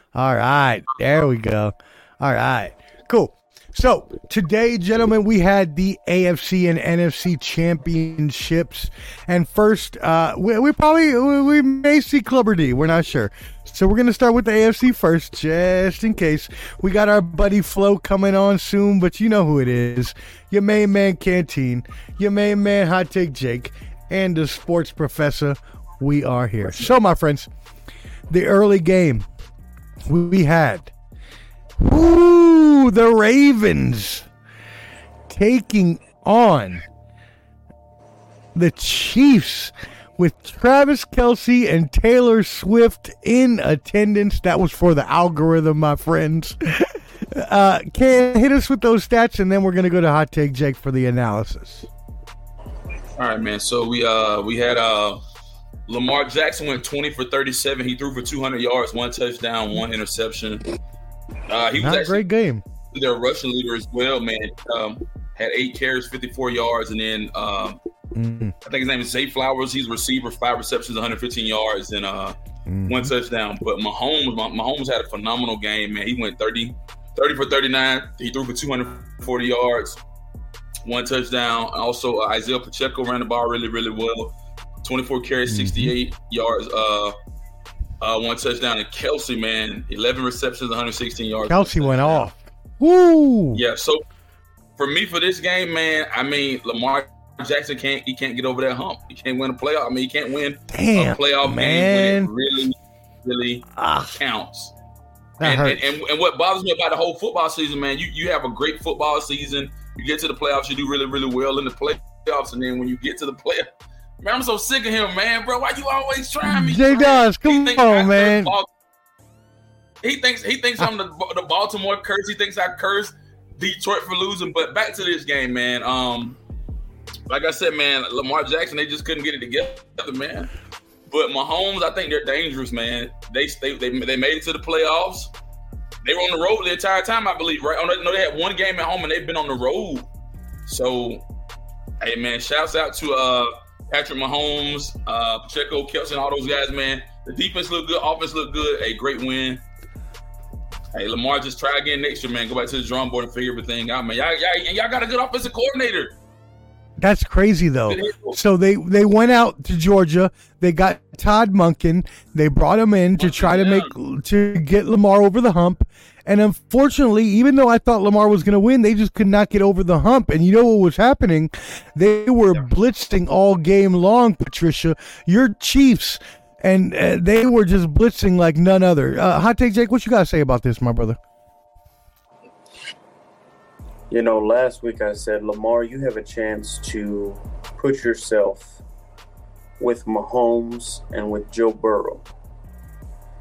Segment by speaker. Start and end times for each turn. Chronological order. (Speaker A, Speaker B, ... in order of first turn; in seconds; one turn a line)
Speaker A: 0.1-27.5
Speaker A: 28.3-29.2
Speaker A: 30.1-30.9
Speaker A: 31.8-34.3
Speaker A: 35.3-36.8
Speaker A: 38.5-51.9
Speaker B: 53.2-55.2
Speaker B: 55.9-60.6
Speaker B: 61.5-62.2
Speaker A: 61.8-62.6
Speaker B: 62.9-67.8
Speaker A: 68.2-68.5
Speaker B: 68.7-72.4
Speaker A: 72.7-73.1
Speaker B: 72.9-80.0
Speaker B: 80.8-87.2
Speaker A: 85.5-85.9
Speaker B: 88.0-92.3
Speaker A: 91.5-93.6
Speaker B: 93.5-94.0
Speaker B: 94.8-104.7
Speaker A: 100.7-102.3
Speaker A: 103.8-104.2
Speaker A: 105.4-106.0
Speaker B: 105.4-113.7
Speaker B: 114.2-118.7
Speaker A: 116.4-118.5
Speaker B: 120.0-126.4
Speaker B: 127.3-130.5
Speaker B: 131.1-135.3
Speaker B: 136.0-140.1
Speaker B: 140.7-141.2
Speaker B: 142.0-149.6
Speaker B: 150.9-156.1
Speaker A: 157.0-181.2
Speaker B: 157.9-158.4
Speaker B: 163.2-163.9
Speaker C: 184.1-188.8
Speaker C: 189.8-192.2